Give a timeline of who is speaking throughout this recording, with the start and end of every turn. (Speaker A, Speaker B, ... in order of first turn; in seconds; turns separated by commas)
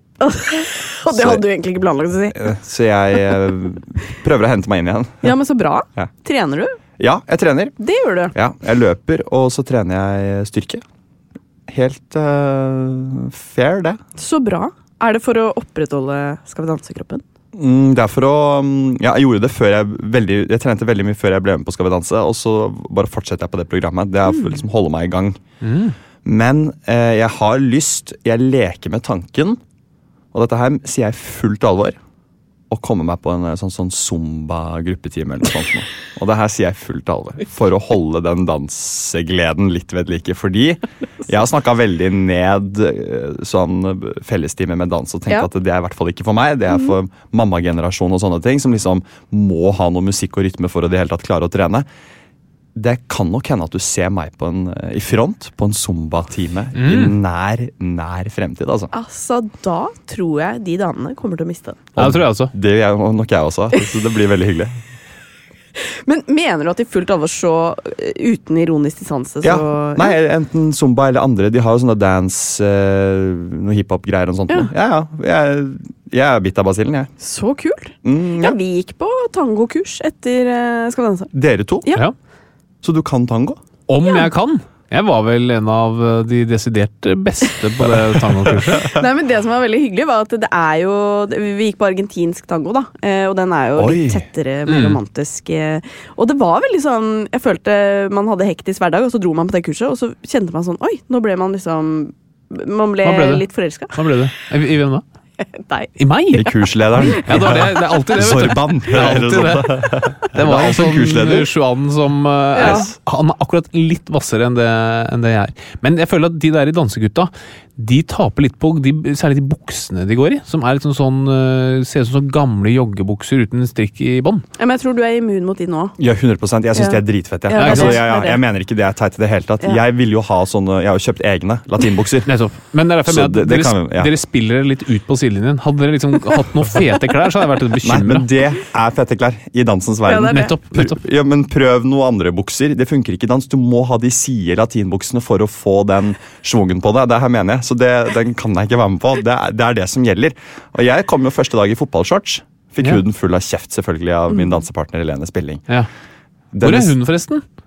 Speaker A: 0.2-2.5, Speaker B: 1.1-1.4, Speaker B: 2.3-5.3, Speaker A: 5.2-6.8, Speaker B: 7.0-7.8, Speaker A: 7.8-8.3, Speaker B: 8.3-10.8, Speaker B: 11.7-14.0, Speaker A: 14.2-17.2, Speaker B: 17.6-25.4, Speaker A: 24.3-24.6, Speaker C: 25.6-25.9, Speaker B: 26.2-29.6, Speaker B: 30.3-32.0, Speaker B: 32.7-51.9, Speaker B: 52.8-58.9, Speaker C: 56.8-57.2, Speaker A: 58.9-61.8, Speaker B: 62.0-64.7, Speaker C: 62.0-62.5, Speaker A: 65.8-70.2, Speaker B: 69.4-77.1, Speaker A: 77.2-81.3, Speaker B: 78.0-78.6, Speaker B: 81.3-81.9, Speaker B: 82.8-83.6, Speaker C: 83.9-88.9, Speaker A: 88.9-104.0, Speaker B: 93.8-94.2, Speaker C: 94.7-95.0, Speaker C: 103.0-105.0, Speaker A: 105.4-106.6, Speaker C: 106.0-124.5, Speaker B: 106.3-111.5, Speaker A: 107.2-107.6, Speaker A: 112.5-112.9, Speaker B: 112.6-112.9, Speaker A: 124.6-126.0, Speaker B: 126.0-132.3, Speaker A: 126.8-128.4, Speaker C: 127.6-128.0, Speaker C: 132.3-138.3, Speaker B: 133.1-134.1, Speaker B: 137.8-155.6, Speaker A: 140.1-140.6, Speaker C: 140.3-141.0, Speaker A: 154.3-154.6, Speaker B: 156.5-157.0, Speaker C: 156.6-157.4